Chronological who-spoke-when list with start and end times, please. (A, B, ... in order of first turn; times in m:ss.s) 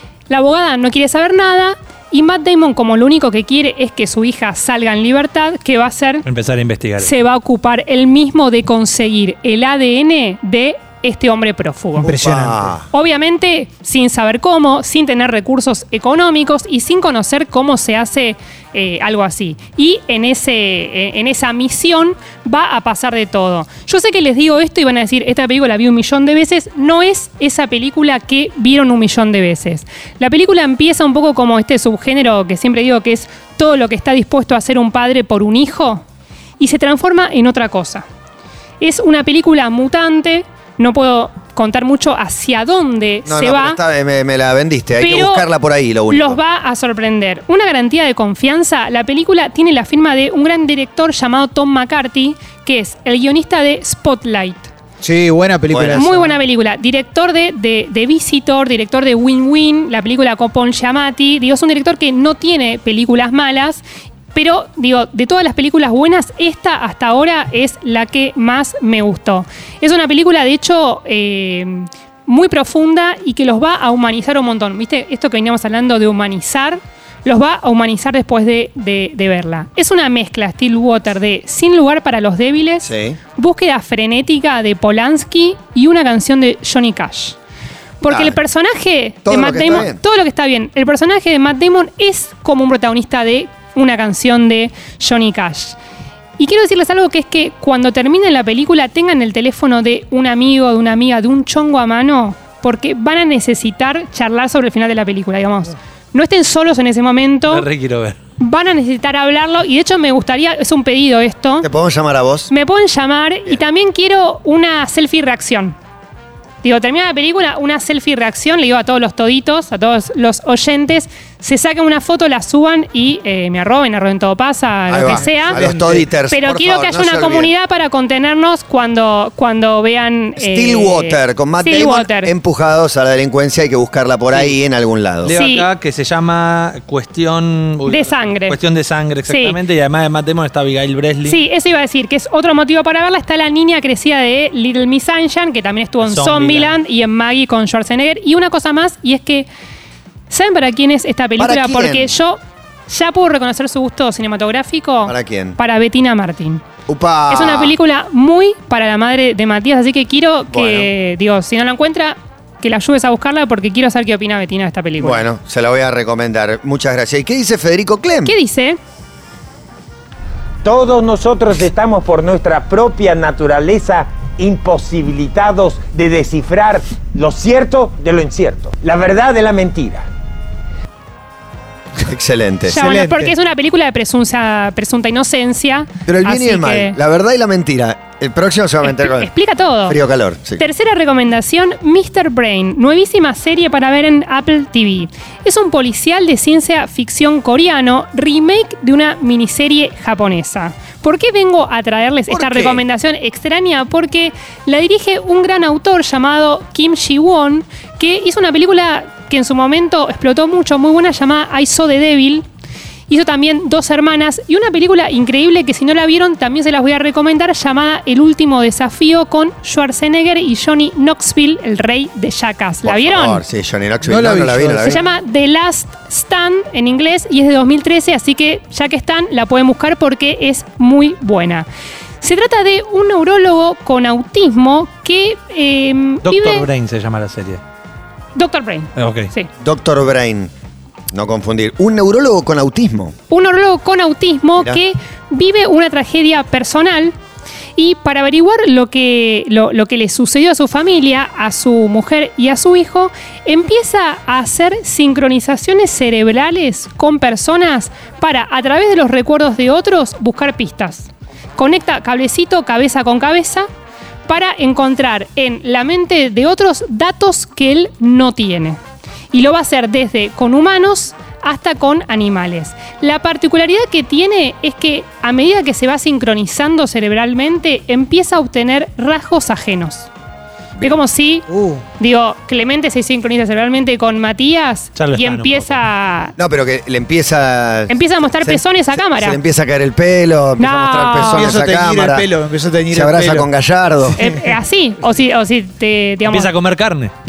0:00.3-0:06.2 A
0:06.2-0:07.1 B
0:07.0-0:12.1 A
0:12.0-0:12.7 C
0:12.0-0:12.8 D
0:12.9-0:36.0 A
0:36.6-0:38.0 A
0:38.8-0:43.8 A
0:43.3-0:46.4 D
0:45.0-0:45.5 A
0:46.1-0:54.7 A
0:55.0-0:56.4 C
0:55.7-0:56.0 D
0:55.9-1:03.8 A
1:04.3-1:27.4 A
1:22.8-1:23.2 D
1:28.0-1:35.8 A
1:28.1-1:28.4 D
1:29.2-1:30.0 D
1:36.4-1:47.7 A
1:47.5-1:48.2 B
1:48.4-1:51.7 A
1:51.6-1:52.5 D
1:52.5-1:55.8 A
1:56.6-2:05.6 A
2:04.9-2:07.5 D
2:05.0-2:06.0 C
2:06.3-2:12.3 A
2:10.4-2:15.3 D
2:14.3-2:14.6 B
2:15.2-2:21.4 B
2:15.3-2:15.7 A
2:17.8-2:18.6 A
2:19.2-2:19.6 A
2:21.2-2:29.5 A
2:26.0-2:26.8 B
2:30.3-2:36.6 A
2:31.4-2:32.1 D
2:35.0-2:35.6 D
2:36.9-2:37.8 D
2:37.3-2:45.2 A
2:40.5-2:40.9 D
2:45.0-2:48.3 D
2:48.2-2:48.8 A
2:50.6-3:00.1 E
3:02.1-3:02.8 D
3:02.7-3:07.0 A
3:02.7-3:03.3 C
3:06.1-3:09.3 D
3:08.8-3:10.0 A
3:09.9-3:10.6 D
3:10.6-3:32.4 A
3:22.3-3:22.8 D
3:33.1-3:43.4 A
3:42.8-3:45.0 D
3:44.0-3:45.0 C
3:44.8-3:51.6 A
3:52.2-3:56.7 A
3:56.2-3:57.6 B
3:58.3-3:59.5 A
3:59.0-3:59.3 B
3:59.6-4:00.5 D
4:01.1-4:03.1 D
4:03.3-4:07.1 A
4:07.8-4:23.7 A
4:24.2-4:28.8 A
4:29.3-4:40.1 A
4:40.8-4:41.5 A
4:41.5-4:41.8 C
4:42.0-4:46.3 A
4:45.0-4:45.8 B
4:46.4-4:52.3 D
4:47.9-4:49.4 A
4:50.6-4:51.6 A
4:51.2-4:53.5 C
4:52.9-4:54.2 D
4:54.0-4:54.5 C
4:54.2-4:56.5 A
4:56.2-4:57.1 B